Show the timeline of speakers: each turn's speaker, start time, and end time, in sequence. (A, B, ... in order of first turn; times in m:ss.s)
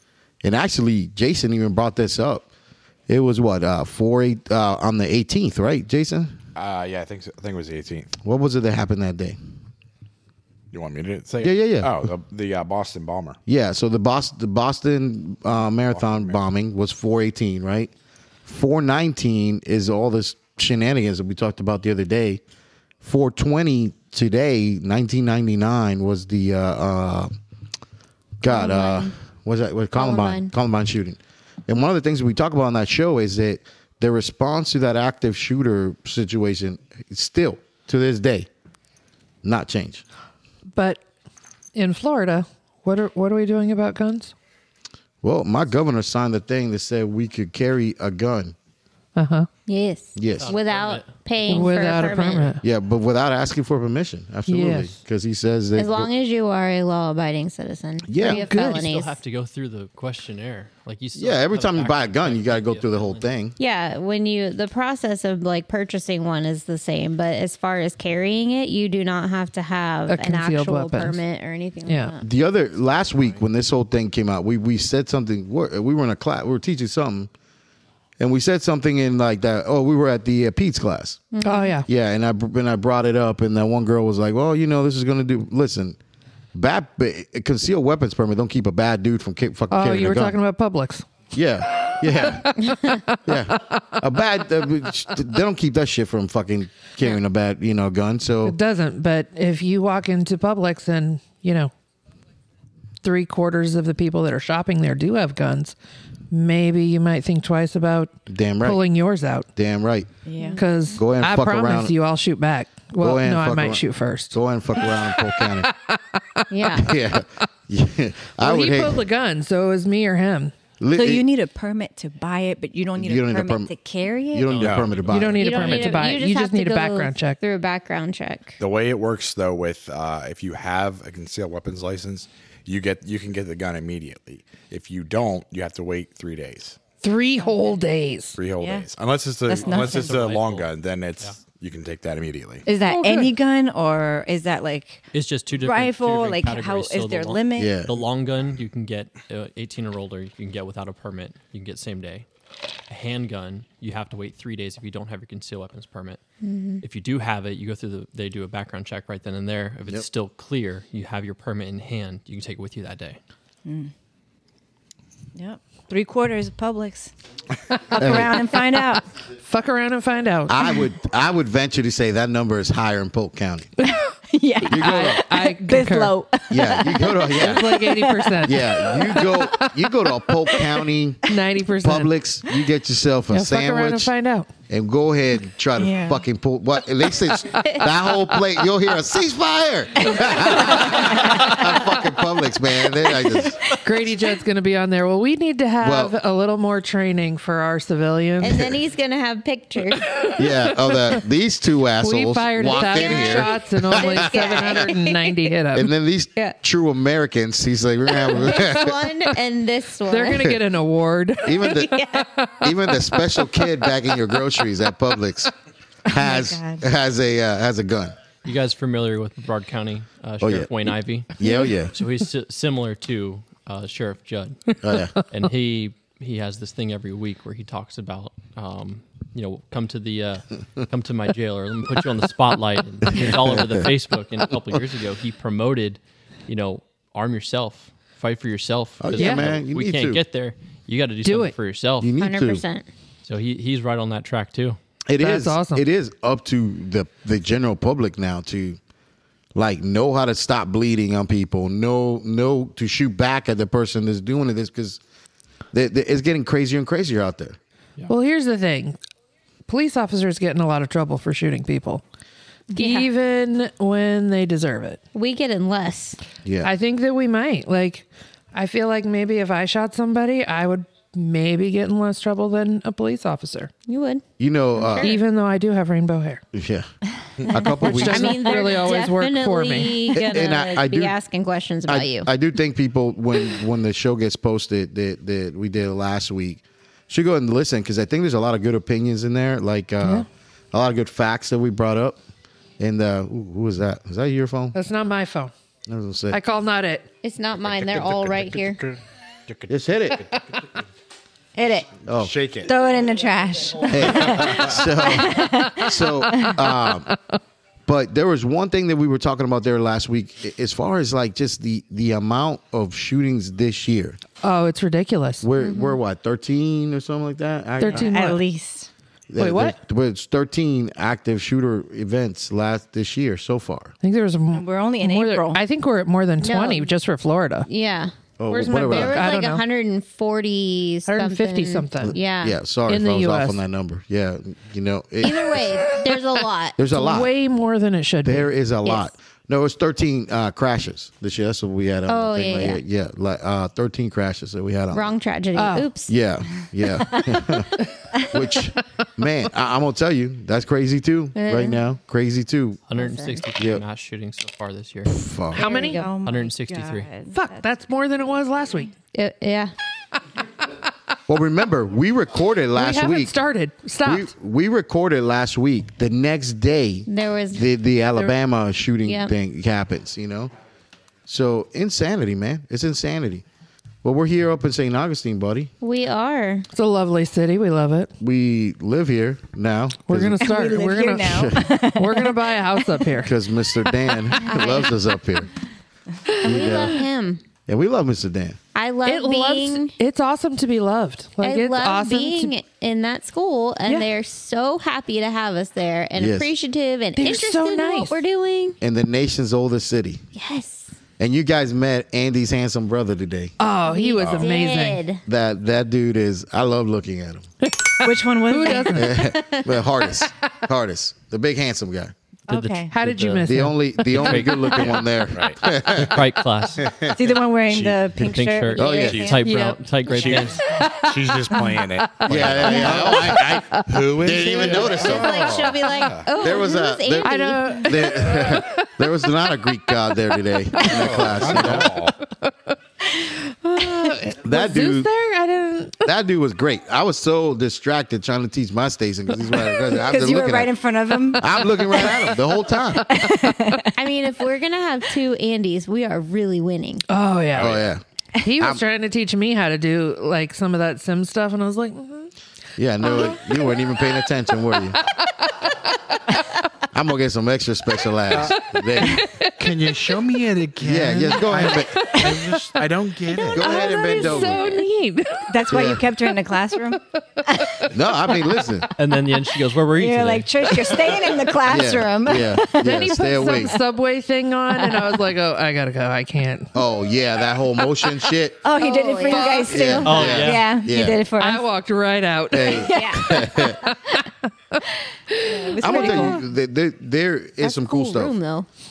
0:00.4-0:02.4 A
0:03.1-0:06.4 A
0:06.5-0:08.1 B
0:08.2-0:09.4 A
0:10.7-0:13.4 B
0:11.4-0:12.1 A
0:13.5-0:17.9 A
0:15.9-0:16.4 B
0:18.4-0:22.4 A
0:23.0-0:27.3 A
0:28.4-0:38.5 A
0:28.5-0:29.1 C
0:29.9-0:30.5 C
0:39.4-0:40.0 A
0:40.7-0:41.0 D
0:41.7-0:44.3 D
0:45.2-0:48.5 A
0:49.2-0:49.5 D
0:49.7-0:52.6 C
0:50.2-0:50.5 A
0:50.4-0:51.1 E
0:51.5-0:52.6 D
0:52.6-0:56.1 A
0:54.5-0:54.9 D
0:55.8-0:59.1 C
0:58.1-0:58.5 A
0:58.2-0:58.8 D
0:58.4-1:03.2 E
1:01.1-1:03.5 A
1:03.6-1:12.2 C
1:10.1-1:11.2 D
1:11.9-1:12.1 D
1:12.2-1:17.3 A
1:18.2-1:21.3 A
1:21.3-1:21.8 C
1:21.4-1:21.9 D
1:21.9-1:26.0 A
1:26.5-1:30.4 A
1:29.7-1:31.1 D
1:31.3-1:32.7 A
1:32.2-1:33.4 D
1:33.2-1:38.6 A
1:38.4-1:41.7 D
1:43.0-1:45.7 D
1:46.3-1:49.5 D
1:48.3-1:48.8 A
1:49.6-1:50.1 A
1:50.2-1:50.6 F
1:50.4-1:50.6 C
1:50.6-1:56.5 D
1:50.9-1:51.9 A
1:53.0-1:55.7 A
1:56.5-1:56.9 C
1:56.8-1:59.0 A
1:58.4-2:00.5 D
2:00.8-2:01.3 A
2:00.9-2:04.7 F
2:03.0-2:03.7 A
2:04.3-2:05.9 A
2:04.5-2:05.2 E
2:04.6-2:05.1 B
2:05.0-2:07.4 D
2:05.4-2:08.6 C
2:08.6-2:16.8 B
2:17.0-2:18.4 D
2:18.4-2:22.7 B
2:18.6-2:18.9 F
2:19.5-2:20.2 F
2:19.6-2:20.7 E
2:22.6-2:27.7 F
2:22.8-2:23.3 D
2:25.1-2:32.2 E
2:27.6-2:27.9 A
2:32.9-2:36.2 E
2:36.4-2:36.8 C
2:36.8-2:43.2 E
2:43.6-2:43.9 F
2:45.4-2:47.1 F
2:47.9-2:49.0 F
2:48.0-2:48.4 A
2:49.4-2:50.8 D
2:50.5-2:53.7 A
2:54.3-2:59.3 F
2:54.6-2:55.3 A
2:54.7-2:56.2 D
2:56.5-2:57.8 A
2:57.3-2:59.7 D
2:58.4-3:01.2 A
3:01.3-3:02.1 D
3:01.8-3:04.1 A
3:03.3-3:04.5 D
3:04.7-3:13.6 A
3:05.8-3:06.2 F
3:10.1-3:11.8 F
3:13.8-3:18.7 D
3:15.8-3:16.1 A
3:18.4-3:20.1 C
3:20.4-3:24.8 A
3:22.0-3:25.9 D
3:22.7-3:25.4 C
3:25.7-3:29.2 A
3:28.4-3:30.5 C
3:30.1-3:33.7 D
3:30.3-3:30.6 A
3:31.4-3:32.0 A
3:32.6-3:35.5 A
3:36.0-3:38.1 A
3:36.1-3:36.8 F
3:38.4-3:41.3 E
3:40.4-3:40.7 A
3:41.4-3:41.9 A
3:41.9-4:02.1 E
3:44.8-3:45.1 A
3:53.1-3:53.9 A
3:59.0-4:00.2 A
3:59.1-3:59.5 D
4:01.2-4:01.5 D
4:02.0-4:02.6 A
4:02.2-4:02.9 C
4:03.2-4:04.8 E
4:05.1-4:08.8 A
4:05.2-4:05.8 D
4:09.5-4:15.0 A
4:15.7-4:17.6 A
4:18.1-4:19.0 D
4:19.7-4:22.0 D
4:22.7-4:23.1 C
4:22.7-4:25.0 D
4:25.1-4:26.2 C
4:26.4-4:26.7 A
4:26.6-4:33.7 D
4:33.9-4:34.2 C
4:34.4-4:35.1 A
4:34.8-4:35.2 C
4:35.0-4:36.4 D
4:36.5-4:36.9 A
4:37.4-4:38.4 A
4:37.7-4:40.1 D
4:37.9-4:42.3 C
4:40.1-4:41.1 A
4:41.9-4:52.2 A
4:52.8-4:54.8 A
4:54.7-4:55.5 D
4:55.9-4:56.4 A
4:56.3-4:57.0 D
4:57.2-4:58.8 C
4:57.6-5:00.4 B
4:59.7-5:00.2 A
5:01.6-5:01.9 F
5:02.0-5:02.3 A
5:02.1-5:02.7 B
5:02.6-5:06.6 F
5:03.9-5:07.1 A
5:04.3-5:04.7 B
5:07.8-5:14.2 A
5:14.4-5:15.4 D
5:15.4-5:18.3 A
5:15.6-5:16.0 C
5:17.8-5:18.4 D
5:17.9-5:18.9 F
5:19.3-5:23.9 A
5:19.4-5:19.8 D
5:24.0-5:27.7 D
5:24.5-5:25.6 F
5:26.4-5:26.9 C
5:27.6-5:28.1 C
5:28.4-5:29.3 A
5:28.5-5:29.6 D
5:28.6-5:32.6 C
5:31.1-5:32.2 D
5:32.0-5:35.8 A
5:32.9-5:33.6 D
5:35.2-5:36.8 C
5:36.8-5:37.3 A
5:36.9-5:38.5 D
5:38.2-5:45.1 A
5:38.8-5:39.1 C
5:42.1-5:42.8 C
5:44.9-5:46.1 C
5:45.5-5:45.9 D
5:46.1-5:52.8 A
5:51.3-5:51.8 C
5:52.9-5:55.2 E
5:52.9-5:53.4 C
5:53.6-5:53.8 A
5:55.1-5:55.6 A
5:55.5-5:56.0 D
5:55.6-5:57.6 F
5:55.6-5:56.1 C
5:56.2-5:57.1 E
5:57.3-5:58.9 D
5:59.1-5:59.7 C
6:01.3-6:03.4 A
6:02.7-6:04.3 D
6:04.0-6:10.5 A
6:07.1-6:07.7 C
6:09.0-6:09.3 C
6:11.3-6:13.4 A
6:14.0-6:15.7 A
6:15.8-6:16.7 C
6:16.7-6:18.1 D
6:18.2-6:20.5 A
6:20.1-6:23.3 D
6:20.4-6:23.2 F
6:21.3-6:21.7 A
6:23.2-6:25.5 A
6:24.4-6:24.9 C
6:26.4-6:27.4 C
6:26.4-6:27.0 A
6:27.6-6:28.6 A
6:28.7-6:29.9 C
6:29.0-6:32.5 D
6:31.4-6:38.8 C
6:33.8-6:34.1 D
6:36.2-6:36.5 A
6:37.2-6:38.2 D
6:38.8-6:40.2 A
6:40.3-6:40.9 C
6:41.2-6:43.5 A
6:43.6-6:45.0 D
6:43.8-6:45.2 C
6:44.2-6:44.4 B
6:45.2-6:47.5 A
6:47.6-6:49.1 D
6:48.0-6:49.1 F
6:48.9-6:52.1 A
6:49.2-6:49.7 C
6:52.5-6:52.9 F
6:52.5-6:53.4 E
6:52.9-6:54.4 D
6:53.4-6:57.2 A
6:54.1-6:55.0 E
6:54.8-6:55.6 B
6:55.9-6:56.8 E
6:57.1-6:59.4 F
6:57.7-6:58.1 B
6:58.1-7:00.6 E
6:58.8-6:59.3 A
6:58.9-6:59.4 B
6:59.4-7:03.9 D
7:00.1-7:06.3 B
7:02.2-7:05.7 A
7:04.9-7:07.9 C
7:06.4-7:11.9 A
7:07.2-7:08.9 D
7:10.8-7:12.2 B
7:12.2-7:16.0 D
7:14.4-7:15.1 A
7:16.0-7:20.7 A
7:19.9-7:22.1 F
7:21.3-7:23.0 A
7:23.0-7:23.9 F
7:23.9-7:27.0 C
7:27.1-7:27.8 D
7:27.5-7:27.9 B
7:27.6-7:28.0 A
7:28.4-7:32.3 D
7:32.8-7:35.0 A
7:33.0-7:33.4 D
7:35.1-7:35.5 D
7:36.9-7:39.2 A
7:38.3-7:38.6 B
7:39.0-7:39.5 D
7:39.6-7:44.5 B
7:40.8-7:42.1 A
7:41.9-7:42.7 D
7:43.4-7:45.6 D
7:43.5-7:44.8 A
7:45.5-7:47.9 F
7:45.7-7:46.0 A
7:47.9-7:48.9 A
7:49.0-7:51.1 E
7:50.0-7:53.8 F
7:51.6-7:53.7 A
7:52.8-7:56.7 D
7:54.8-7:55.2 F
7:56.7-7:58.6 A
7:58.6-8:01.7 F
7:58.8-8:00.0 C
7:59.3-7:59.6 D
7:59.7-8:01.2 A
8:00.0-8:00.7 E
8:01.4-8:06.2 D
8:02.5-8:03.8 A
8:02.7-8:03.2 F
8:02.9-8:03.2 C
8:05.5-8:06.4 F
8:05.8-8:08.4 A
8:07.6-8:08.7 C